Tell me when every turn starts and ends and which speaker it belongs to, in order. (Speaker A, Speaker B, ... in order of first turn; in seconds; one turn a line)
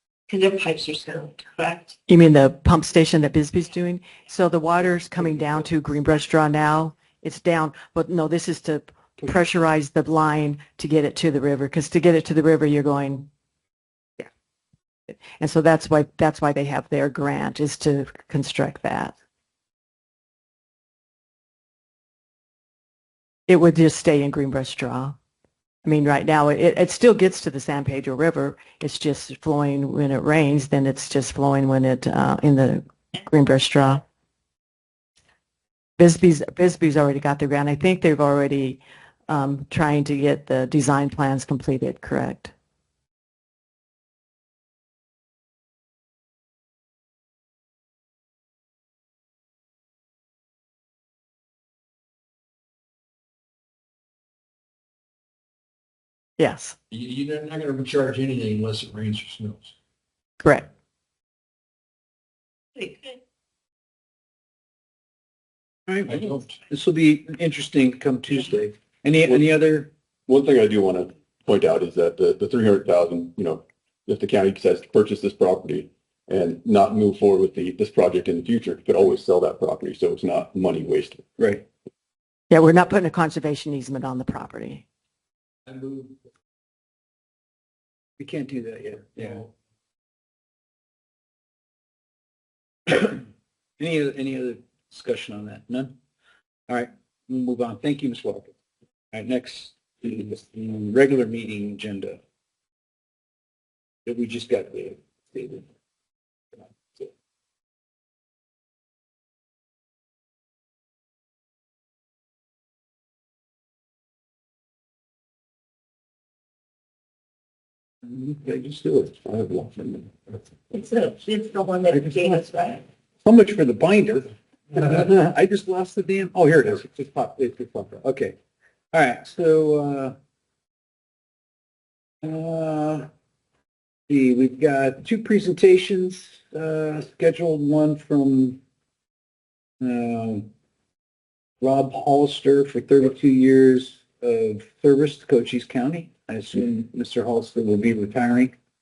Speaker A: 0.3-2.0
Speaker B: 2.1-13.3
Speaker B: 15.4-19.2
Speaker B: 23.5-25.2
Speaker B: 25.8-34.0
Speaker B: 36.0-42.5
Speaker B: 56.4-56.8
Speaker C: 56.9-59.7
Speaker B: 60.4-60.7
Speaker A: 62.8-63.2
Speaker D: 65.9-69.9
Speaker C: 66.1-66.6
Speaker E: 70.3-81.2
Speaker D: 81.4-81.7
Speaker B: 82.5-84.8
Speaker C: 85.7-86.2
Speaker D: 88.2-89.5
Speaker C: 89.2-89.5
Speaker D: 92.9-93.3
Speaker D: 93.8-96.0
Speaker D: 96.7-98.5
Speaker D: 99.1-102.2
Speaker D: 104.0-105.7
Speaker D: 118.0-120.1
Speaker A: 120.7-122.8
Speaker D: 121.9-122.4
Speaker D: 123.2-128.3
Speaker D: 128.9-130.2
Speaker D: 132.2-133.1
Speaker D: 134.1-138.6
Speaker D: 139.8-140.5
Speaker D: 141.6-148.5